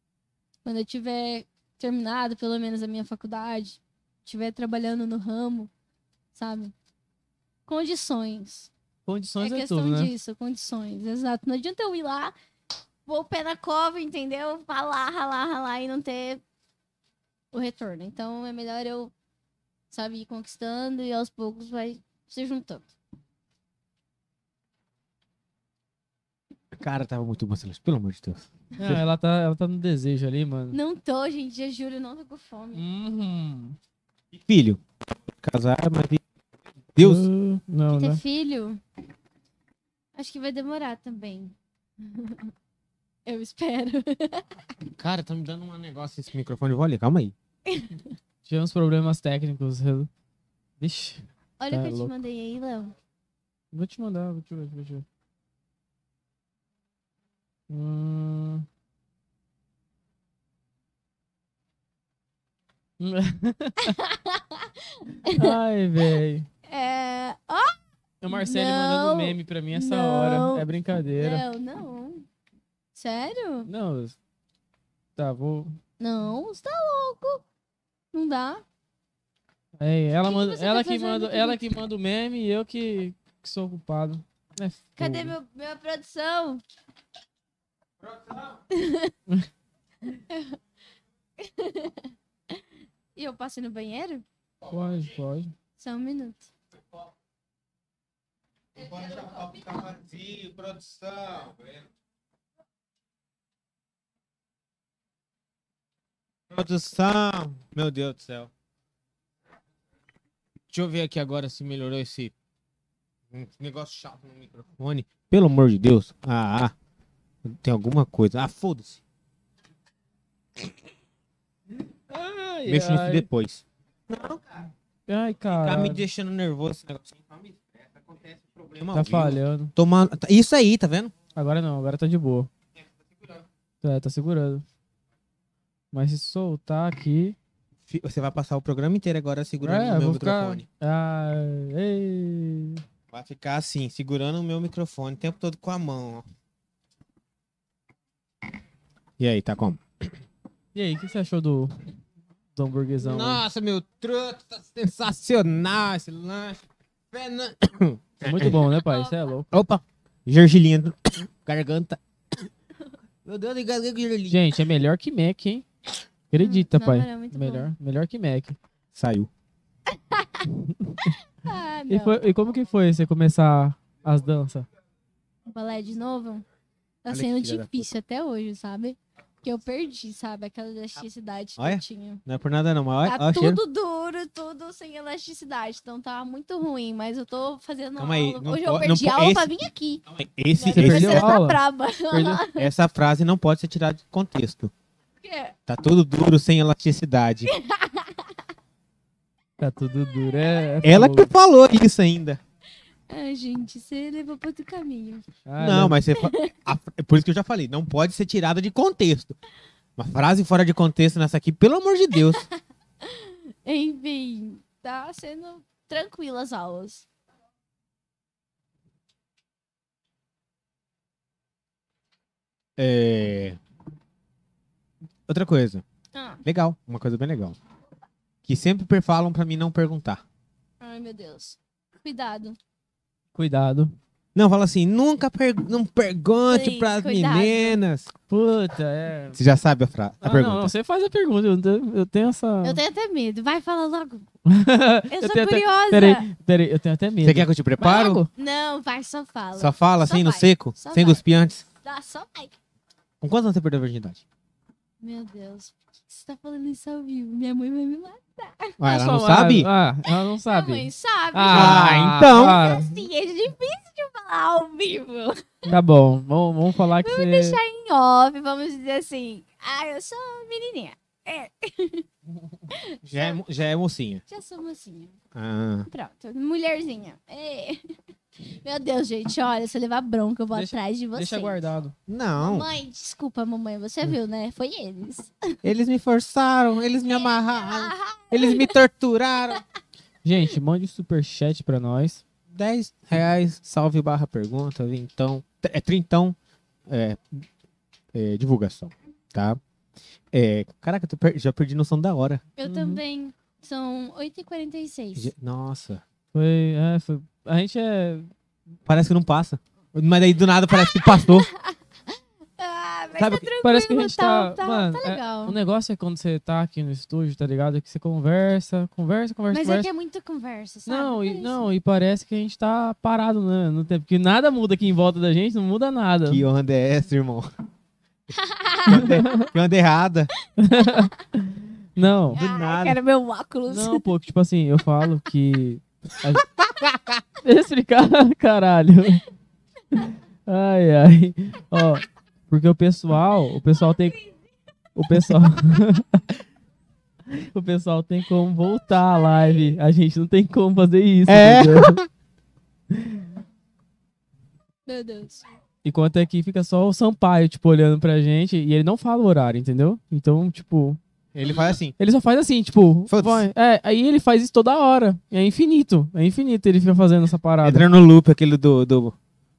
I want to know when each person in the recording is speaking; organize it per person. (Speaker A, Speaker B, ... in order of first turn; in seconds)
Speaker A: 0.7-5.7, 6.3-6.7, 7.7-8.7, 9.4-12.3, 13.1-16.4, 17.5-19.1, 19.9-22.9, 30.7-32.9, 37.9-38.8, 40.2-42.5, 43.2-44.5, 47.7-48.2, 51.6-53.0, 63.9-65.5, 66.7-67.8, 68.3-70.7, 71.2-72.3, 73.0-73.7, 76.0-77.4, 78.1-78.6, 80.2-81.6, 85.0-86.6, 88.7-89.2, 90.0-90.6, 91.4-94.2, 95.8-96.5, 158.4-159.2, 166.4-167.7, 169.9-170.5, 171.1-172.2, 175.5-176.4, 177.1-182.2, 183.0-190.0, 190.6-192.7, 195.2-195.6, 197.5-198.3, 200.2-200.9, 203.1-205.3, 206.1-206.5, 213.0-217.1, 226.1-226.4, 230.8-232.6, 236.5-237.8, 242.6-244.3, 245.1-246.3, 248.3-251.2, 251.8-252.6, 255.0-258.8, 260.1-265.8, 266.8-272.1, 272.7-273.4, 274.3-275.1, 275.9-277.9, 278.6-281.7, 282.4-285.6, 287.1-288.8, 302.6-305.3, 310.7-311.8, 312.6-315.6, 319.5-321.7, 328.3-329.4, 330.7-331.1, 332.3-334.1, 343.8-344.4, 348.9-349.7, 354.9-355.5
Speaker B: 9.1-10.1, 28.8-30.8, 32.8-33.8, 37.0-38.2, 48.5-50.1, 50.8-52.1, 53.7-55.0, 57.7-58.7, 63.0-64.0, 65.3-66.5, 68.2-71.4, 73.7-74.2, 75.2-75.8, 79.8-85.4, 94.7-95.5, 122.1-123.3, 125.1-126.0, 128.9-129.7, 131.3-132.5, 133.8-134.6, 135.9-137.4, 139.6-142.8, 150.7-151.7, 152.6-153.4, 158.2-159.5, 164.3-165.7, 166.3-168.6, 170.7-171.2, 171.9-174.7, 190.7-191.6, 199.6-201.3, 205.4-206.0, 233.3-234.0, 238.3-239.4, 240.2-242.8, 244.5-248.3, 258.9-263.1, 265.7-267.6, 280.5-281.9, 290.2-292.2, 302.6-303.0, 306.3-308.3, 313.6-319.9, 320.9-326.4, 329.2-329.4, 330.6-332.4, 333.7-336.4, 337.4-339.2, 339.9-344.2, 345.0-346.2, 347.3-352.0, 352.9-353.3, 355.8-361.0, 362.0-367.9
Speaker C: 26.8-29.0, 34.3-34.8, 35.4-36.2, 37.0-37.3, 45.0-47.3, 88.1-88.5, 98.8-101.9, 106.5-108.5, 110.7-112.3, 113.3-116.7, 117.5-119.0, 122.7-124.7, 125.5-131.1, 137.9-140.7, 143.1-146.2, 149.2-150.1, 153.0-158.6, 159.5-162.0, 163.2-164.4, 168.9-169.3, 177.1-177.9, 181.6-183.6, 188.0-189.5, 190.1-191.3, 192.1-194.7, 195.7-197.5, 200.8-202.4, 205.6-209.4, 210.0-212.4, 222.8-223.6, 225.3-225.8, 226.4-227.6, 228.4-230.2, 234.3-238.1, 239.3-240.7, 247.2-248.2, 249.6-251.7, 253.2-254.2, 258.8-259.7, 261.5-262.6, 273.0-274.2, 275.3-275.9, 282.1-282.7, 285.6-289.6, 292.5-296.4, 296.9-297.5, 298.1-299.6, 300.3-302.4, 305.1-306.0, 308.9-311.5, 313.2-313.5, 326.3-327.5, 328.9-330.3, 332.3-333.0, 336.6-337.2, 351.3-352.1, 361.3-361.9, 363.1-363.5, 367.6-369.1